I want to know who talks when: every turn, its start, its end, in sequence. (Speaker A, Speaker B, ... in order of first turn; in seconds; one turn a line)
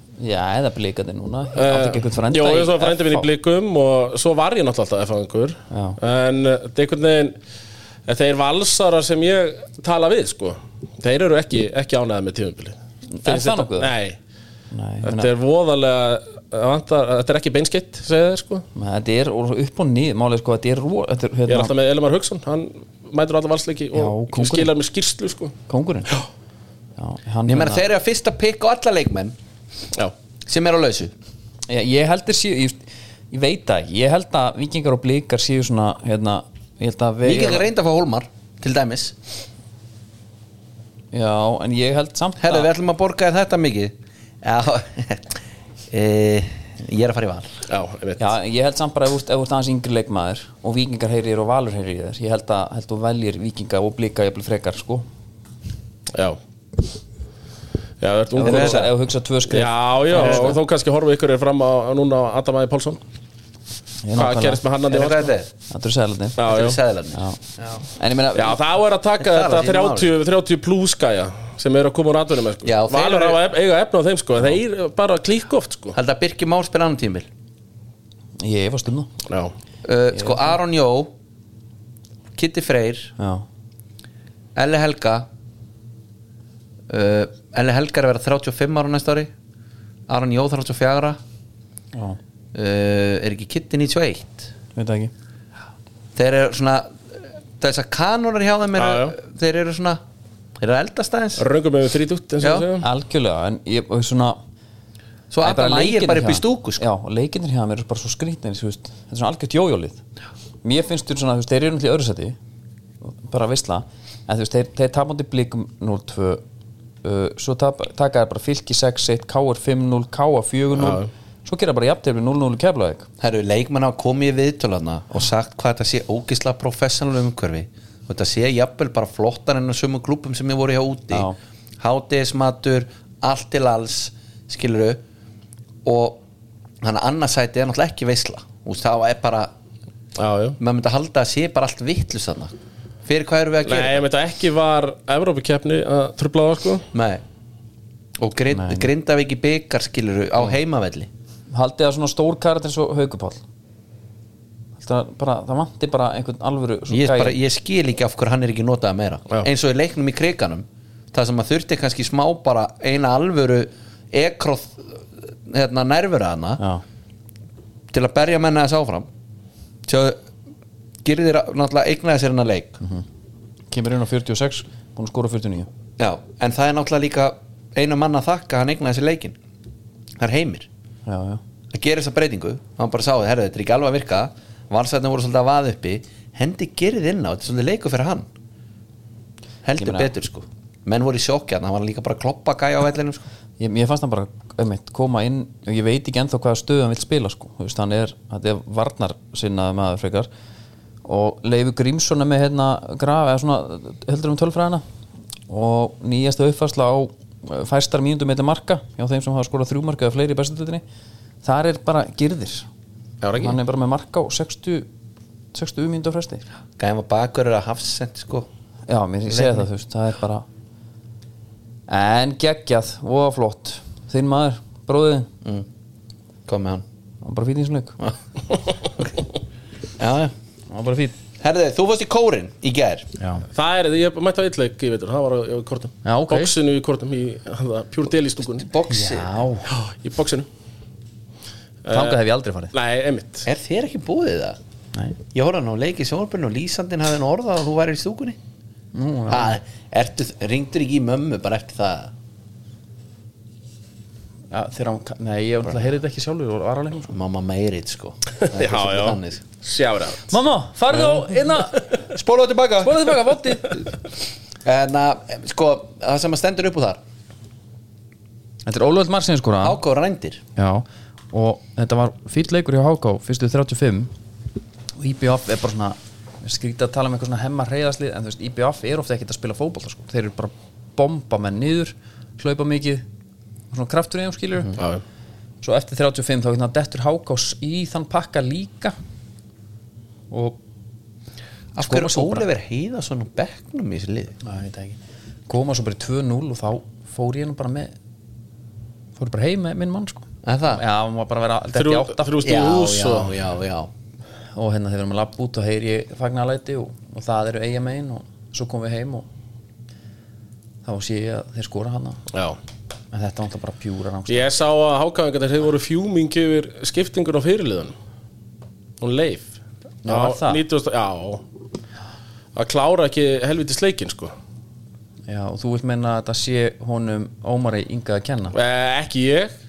Speaker A: 0.2-3.3
Speaker B: 1.5-7.3
Speaker A: 5.7-6.0
Speaker B: 8.1-14.2
Speaker A: 13.1-13.9
Speaker A: 14.7-15.3
Speaker B: 15.0-18.6
Speaker A: 18.7-21.7
Speaker B: 21.5-25.5
Speaker A: 23.9-24.7
Speaker A: 25.7-26.1
Speaker A: 27.0-27.8
Speaker C: 27.5-29.4
Speaker C: 30.4-31.1
Speaker A: 31.7-37.6
Speaker C: 37.2-39.2
Speaker A: 41.1-42.7
Speaker C: 42.4-45.4
Speaker C: 45.9-47.5
Speaker B: 47.7-48.3
Speaker A: 48.2-55.1
Speaker B: 58.0-58.9
Speaker A: 58.3-60.6
Speaker C: 58.4-58.9
Speaker B: 59.5-63.0
Speaker A: 64.0-64.6
Speaker B: 64.2-65.3
Speaker C: 64.9-65.5
Speaker A: 65.7-66.4
Speaker B: 66.4-66.8
Speaker C: 66.4-67.8
Speaker A: 68.0-68.6
Speaker B: 68.3-75.9
Speaker C: 69.2-70.1
Speaker C: 72.6-73.4
Speaker C: 75.9-77.3
Speaker A: 78.4-79.1
Speaker B: 79.3-79.5
Speaker C: 79.8-81.1
Speaker A: 80.1-80.5
Speaker C: 82.3-83.1
Speaker A: 83.2-83.5
Speaker C: 84.5-85.3
Speaker C: 86.9-89.3
Speaker C: 90.1-91.2
Speaker A: 91.9-92.2
Speaker C: 92.5-94.5
Speaker A: 94.7-95.1
Speaker C: 96.2-100.0
Speaker B: 98.8-99.1
Speaker C: 100.6-101.4
Speaker B: 101.4-102.9
Speaker C: 102.4-102.7
Speaker A: 102.8-104.4
Speaker C: 105.3-106.8
Speaker A: 105.4-110.0
Speaker A: 110.6-112.3
Speaker A: 113.0-116.4
Speaker A: 117.0-123.1
Speaker B: 120.8-121.1
Speaker C: 123.2-131.3
Speaker C: 131.8-135.0
Speaker C: 135.8-136.2
Speaker C: 136.8-139.5
Speaker B: 140.2-140.6
Speaker C: 140.6-142.5
Speaker C: 143.0-144.1
Speaker B: 143.6-146.8
Speaker C: 146.9-147.2
Speaker C: 148.2-151.1
Speaker A: 148.5-148.9
Speaker A: 151.5-153.4
Speaker A: 154.8-157.4
Speaker C: 156.9-166.6
Speaker A: 166.6-166.8
Speaker C: 167.9-169.1
Speaker C: 169.9-170.2
Speaker C: 171.0-172.8
Speaker A: 173.7-175.7
Speaker C: 176.0-179.4
Speaker C: 180.2-180.7
Speaker A: 181.1-181.4
Speaker C: 181.7-188.3
Speaker C: 189.6-193.3
Speaker A: 189.8-190.1
Speaker A: 193.6-200.3
Speaker A: 201.0-204.8
Speaker A: 205.5-210.8
Speaker A: 211.4-212.7
Speaker B: 213.2-213.6
Speaker A: 213.4-214.9
Speaker A: 215.5-216.4
Speaker C: 216.8-218.5
Speaker A: 218.9-220.4
Speaker C: 219.3-219.6
Speaker A: 221.9-225.3
Speaker C: 226.5-226.8
Speaker A: 227.2-228.0
Speaker C: 230.0-230.3
Speaker A: 230.7-231.1
Speaker C: 231.4-233.1
Speaker A: 233.2-233.4
Speaker B: 233.5-238.7
Speaker A: 236.0-236.6
Speaker C: 238.6-239.3
Speaker A: 238.9-239.7
Speaker B: 239.7-240.5
Speaker B: 241.8-242.2
Speaker A: 241.9-242.7
Speaker B: 242.7-243.4
Speaker C: 243.4-244.6
Speaker C: 245.3-248.4
Speaker A: 248.9-249.5
Speaker C: 249.3-252.1
Speaker A: 254.5-257.1
Speaker C: 257.1-259.4
Speaker B: 258.5-260.3
Speaker A: 260.3-261.9
Speaker C: 262.1-263.1
Speaker A: 262.8-263.8
Speaker C: 264.6-267.0
Speaker A: 268.6-269.8
Speaker C: 269.6-270.4
Speaker A: 270.6-274.1
Speaker A: 274.9-283.0
Speaker A: 283.7-284.8
Speaker A: 285.6-288.9
Speaker A: 290.3-290.6
Speaker C: 291.7-294.4
Speaker A: 291.8-292.5
Speaker A: 294.4-297.9
Speaker A: 299.2-302.4
Speaker C: 300.4-300.8
Speaker B: 301.7-303.4
Speaker C: 302.4-303.9
Speaker A: 304.5-309.3
Speaker A: 310.8-312.2
Speaker B: 312.3-312.6
Speaker A: 313.1-314.5
Speaker B: 314.3-317.9
Speaker B: 319.0-319.5
Speaker A: 320.0-320.6
Speaker B: 320.1-321.4
Speaker B: 322.5-324.3
Speaker A: 325.3-328.5
Speaker B: 328.5-329.5